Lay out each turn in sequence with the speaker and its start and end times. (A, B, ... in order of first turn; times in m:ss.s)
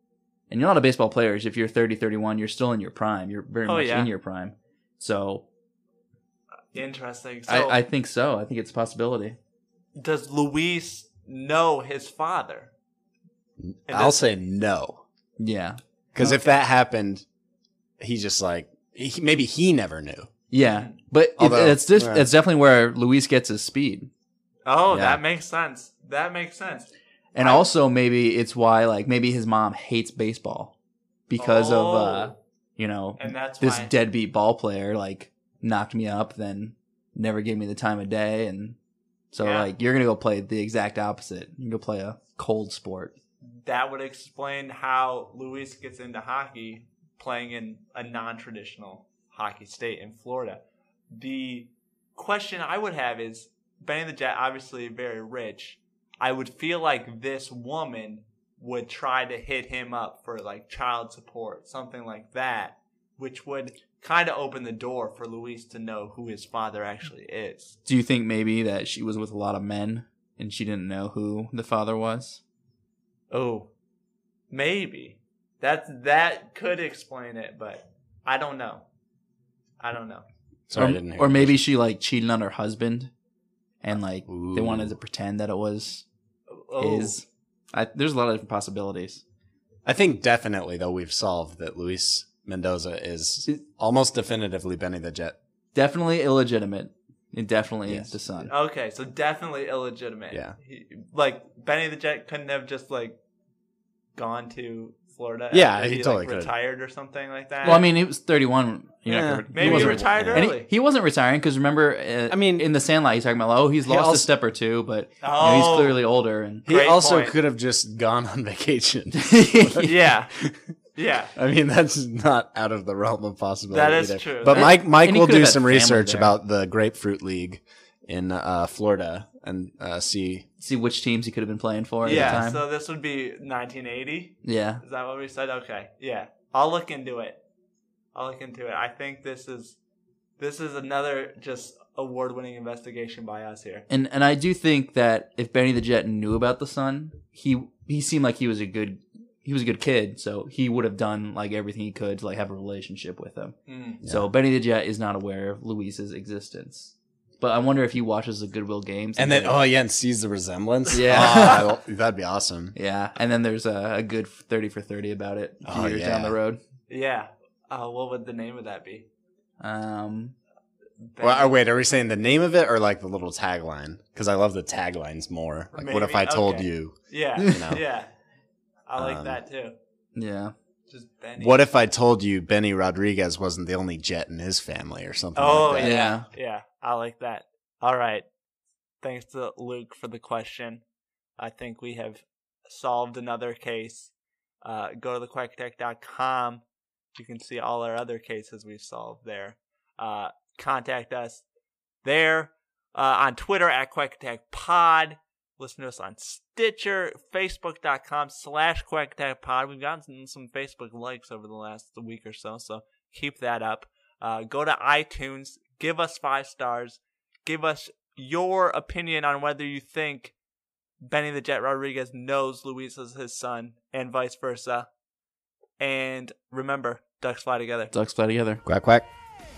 0:00.5-0:05.4 A
0:03.7-0:04.1 B
0:06.7-0:07.8 B
0:07.5-0:09.4 A
0:10.0-0:12.7 B
0:13.6-0:15.0 C
0:13.9-0:14.2 B
0:15.4-0:15.8 A
0:16.1-0:17.2 C
0:16.2-0:16.6 B
0:18.0-0:20.3 C
0:20.5-0:24.1 A
0:20.6-0:21.0 B
0:21.4-0:22.3 C
0:24.6-0:27.7 B
0:24.9-0:25.2 C
0:27.4-0:30.7 A
0:31.3-0:38.8 A
0:31.4-0:32.4 B
0:33.2-0:33.9 B
0:39.3-0:43.2 A
0:39.4-0:39.7 B
0:43.6-1:07.8 B
1:07.9-1:12.4 A
1:13.3-1:13.7 B
1:14.5-1:18.9 B
1:19.8-1:20.3 B
1:20.7-1:21.6 C
1:20.8-1:23.1 A
1:23.8-1:26.0 A
1:24.2-1:25.0 C
1:26.5-1:27.2 B
1:26.8-1:29.2 A
1:29.8-1:35.4 C
1:35.8-1:38.5 A
1:37.9-1:38.1 C
1:38.5-1:43.2 B
1:40.3-1:40.6 C
1:44.2-1:47.9 B
1:45.5-1:46.5 C
1:47.6-1:56.7 A
1:49.1-1:50.5 C
1:49.5-1:50.7 B
1:52.3-1:52.7 C
1:53.8-1:54.3 C
1:55.2-1:56.0 B
1:56.7-1:59.9 C
1:56.7-1:57.4 B
1:59.2-1:59.9 A
1:59.8-2:00.4 B
2:01.0-2:01.3 B
2:01.4-2:10.5 C
2:03.7-2:04.8 B
2:04.5-2:06.4 A
2:10.6-2:12.6 A
2:12.0-2:12.4 C
2:12.0-2:17.4 B
2:14.4-2:14.8 A
2:18.1-2:19.8 B
2:20.4-2:23.9 B
2:23.9-2:39.7 A
2:33.7-2:34.0 B
2:34.0-2:34.3 C
2:39.2-2:42.8 C
2:40.9-2:41.6 A
2:41.2-2:41.6 B
2:42.8-2:46.6 A
2:45.6-2:46.4 C
2:46.9-2:49.1 B
2:49.6-2:50.4 A
2:51.0-2:51.6 B
2:51.2-2:57.8 C
2:55.7-2:58.1 B
2:58.9-2:59.8 B
2:59.0-2:59.4 C
3:00.2-3:00.5 A
3:00.9-3:01.6 B
3:01.4-3:06.0 C
3:05.4-3:08.2 B
3:05.8-3:06.3 A
3:09.0-3:10.8 B
3:11.4-3:14.1 B
3:14.6-3:16.6 B
3:17.2-3:21.4 B
3:22.0-3:40.4 B
3:41.0-3:44.9 B
3:45.8-3:47.9 B
3:47.9-3:48.6 A
3:48.6-3:49.1 C